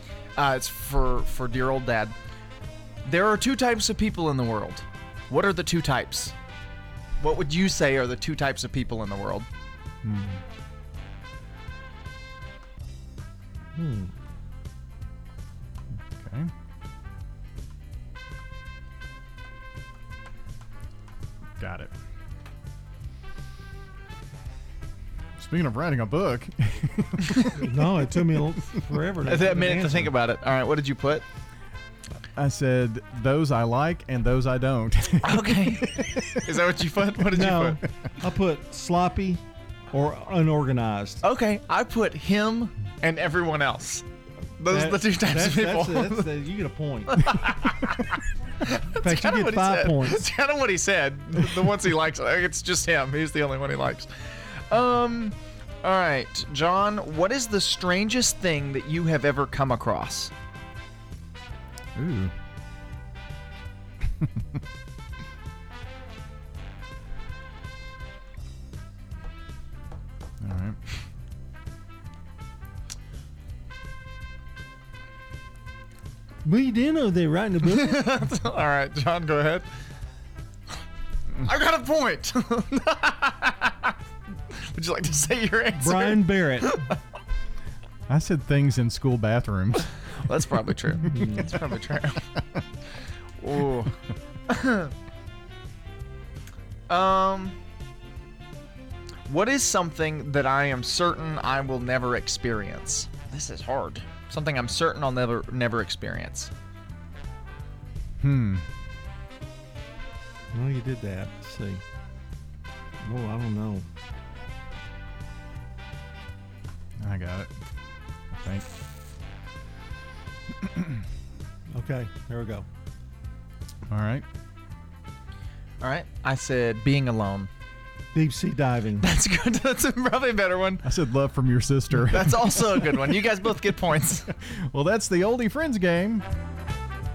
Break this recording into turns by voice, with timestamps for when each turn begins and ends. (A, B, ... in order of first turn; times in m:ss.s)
0:00.4-0:02.1 A
0:03.0-0:06.3 A
0:07.2-0:09.4 A
0:10.0-0:10.4 B
0:13.7-0:14.1 C
0:16.1-0:16.5 B
0:21.6-0:21.9 B
0:25.4-0:27.4 B
0:27.6-0:30.1 C
0:29.3-0:31.2 A
0:32.4-0:36.4 B
0:35.2-0:35.9 A
0:36.4-0:37.8 A
0:37.3-0:39.4 C
0:39.9-0:41.2 C
0:41.2-0:44.0 A
0:44.6-0:46.3 A
0:44.7-0:47.1 C
0:47.2-0:48.0 A
0:49.0-0:54.1 A
0:49.0-0:50.2 C
0:54.7-1:00.3 A
1:02.0-1:02.3 B
1:10.4-1:10.8 B
1:16.4-1:18.1 C
1:17.7-1:19.6 A
1:21.4-1:23.9 A
1:24.7-1:26.2 A
1:25.7-1:26.7 C
1:28.1-1:29.9 B
1:30.2-1:32.2 A
1:31.0-1:31.5 C
1:33.4-1:33.9 A
1:34.5-1:34.9 A
1:36.9-1:37.6 A
1:39.3-1:46.5 A
1:48.2-1:48.6 B
1:50.5-1:51.8 C
1:53.0-1:53.8 C
1:57.0-1:57.5 B
1:58.3-1:58.7 B
2:00.6-2:01.0 B
2:01.7-2:02.6 C
2:03.9-2:04.2 B
2:05.8-2:07.5 A
2:08.1-2:09.1 C
2:09.0-2:10.8 A
2:10.8-2:13.2 B
2:12.0-2:14.2 A
2:14.7-2:16.2 B